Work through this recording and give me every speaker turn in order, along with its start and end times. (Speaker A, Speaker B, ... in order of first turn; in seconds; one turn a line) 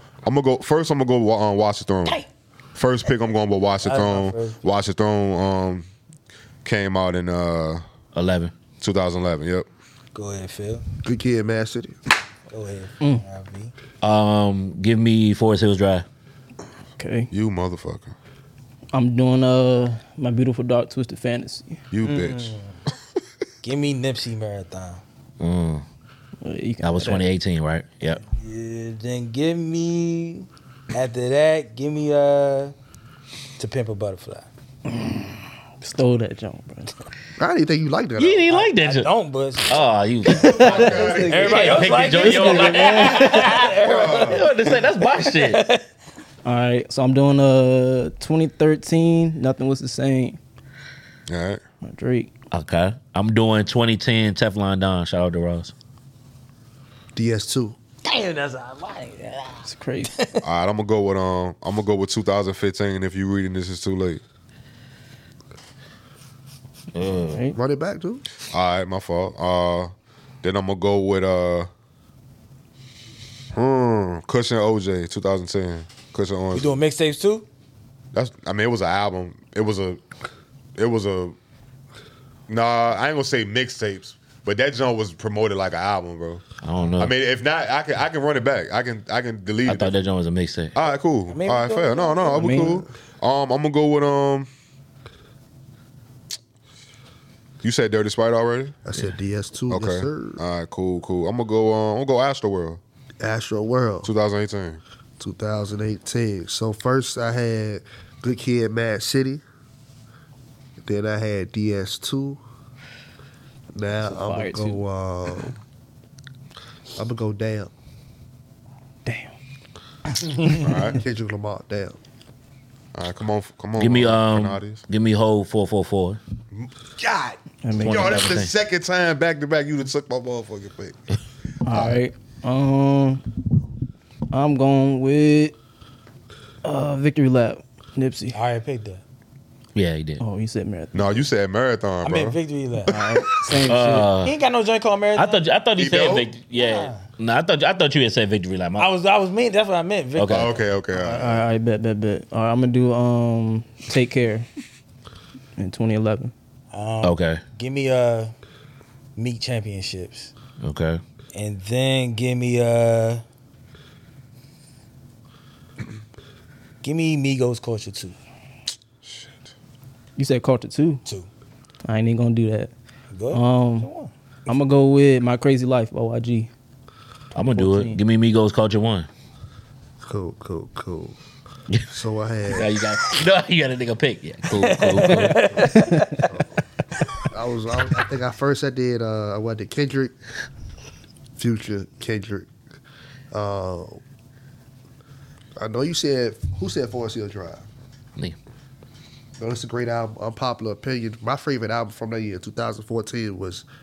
Speaker A: 0.2-2.2
Speaker A: 2.7-5.9
Speaker B: 3.8-4.6
Speaker A: 6.6-7.8
Speaker C: 8.1-8.5
Speaker A: 8.8-9.7
Speaker B: 10.1-10.8
Speaker D: 11.0-12.0
Speaker B: 12.5-13.7
Speaker C: 14.0-16.1
Speaker E: 17.0-17.3
Speaker A: 17.3-18.1
Speaker E: 18.9-21.8
Speaker A: 21.9-22.6
Speaker B: 22.0-22.8
Speaker B: 23.6-25.0
Speaker C: 25.4-25.8
Speaker E: 26.4-27.3
Speaker C: 26.8-28.2
Speaker B: 28.2-32.7
Speaker B: 33.6-34.5
Speaker E: 34.9-36.9
Speaker D: 37.4-38.5
Speaker C: 38.2-39.1
Speaker B: 38.5-45.9
Speaker C: 39.7-45.6
Speaker E: 40.3-43.7
Speaker A: 40.3-41.8
Speaker A: 43.8-44.5
Speaker E: 46.4-50.4
Speaker A: 51.3-51.6
Speaker E: 51.8-52.3
Speaker C: 52.5-55.7
Speaker D: 57.1-57.8
Speaker B: 58.0-60.4
Speaker E: 59.6-60.1
Speaker A: 60.4-64.2
Speaker C: 66.9-67.4
Speaker D: 67.5-68.2
Speaker A: 68.5-71.7
Speaker A: 73.5-76.8
Speaker B: 76.5-77.4
Speaker A: 78.1-80.0
Speaker A: 80.8-81.3
Speaker A: 82.5-86.4
Speaker C: 86.6-87.1
Speaker A: 87.0-89.9
Speaker C: 89.7-90.8
Speaker A: 90.7-94.5
Speaker B: 91.3-92.6
Speaker E: 92.3-92.8
Speaker A: 97.6-98.8
Speaker D: 98.8-100.4
Speaker A: 99.7-102.8
Speaker D: 103.2-104.1
Speaker A: 104.0-104.8
Speaker D: 105.2-109.4
Speaker D: 110.8-112.4
Speaker D: 113.7-115.5
Speaker E: 113.9-114.8
Speaker D: 117.0-117.7
Speaker E: 119.0-119.3
Speaker E: 120.3-120.9
Speaker B: 120.3-120.7
Speaker A: 120.6-121.0
Speaker D: 121.0-122.0
Speaker A: 122.9-124.8
Speaker C: 123.8-126.2
Speaker A: 126.5-131.1
Speaker E: 127.6-128.3
Speaker C: 127.8-128.5
Speaker E: 131.6-133.2
Speaker A: 131.7-132.0
Speaker E: 134.3-135.5
Speaker E: 136.6-138.4
Speaker B: 138.3-139.0
Speaker C: 139.7-140.2
Speaker E: 140.2-141.2
Speaker A: 140.9-143.6
Speaker B: 142.0-142.9
Speaker E: 142.9-144.1
Speaker C: 143.7-144.3
Speaker B: 144.2-145.4
Speaker C: 145.1-148.9
Speaker A: 145.8-146.3
Speaker B: 146.5-147.0
Speaker B: 148.8-150.6
Speaker C: 150.2-150.5
Speaker A: 150.3-151.4
Speaker E: 150.9-154.5
Speaker E: 155.6-156.3
Speaker B: 156.7-158.3
Speaker C: 157.0-157.4
Speaker B: 159.2-160.3
Speaker C: 160.6-161.0
Speaker B: 161.3-163.2
Speaker B: 166.8-168.2
Speaker A: 169.0-169.5
Speaker E: 170.2-171.0
Speaker E: 171.8-172.7
Speaker B: 173.1-174.6
Speaker E: 173.3-173.9
Speaker E: 174.5-176.5
Speaker C: 177.3-179.1
Speaker D: 180.0-181.2
Speaker D: 181.9-182.7
Speaker C: 182.5-185.6
Speaker B: 184.5-186.3
Speaker E: 185.7-186.2
Speaker D: 187.3-190.1
Speaker D: 191.4-192.5
Speaker D: 193.3-194.0
Speaker D: 195.6-197.6
Speaker D: 199.4-203.6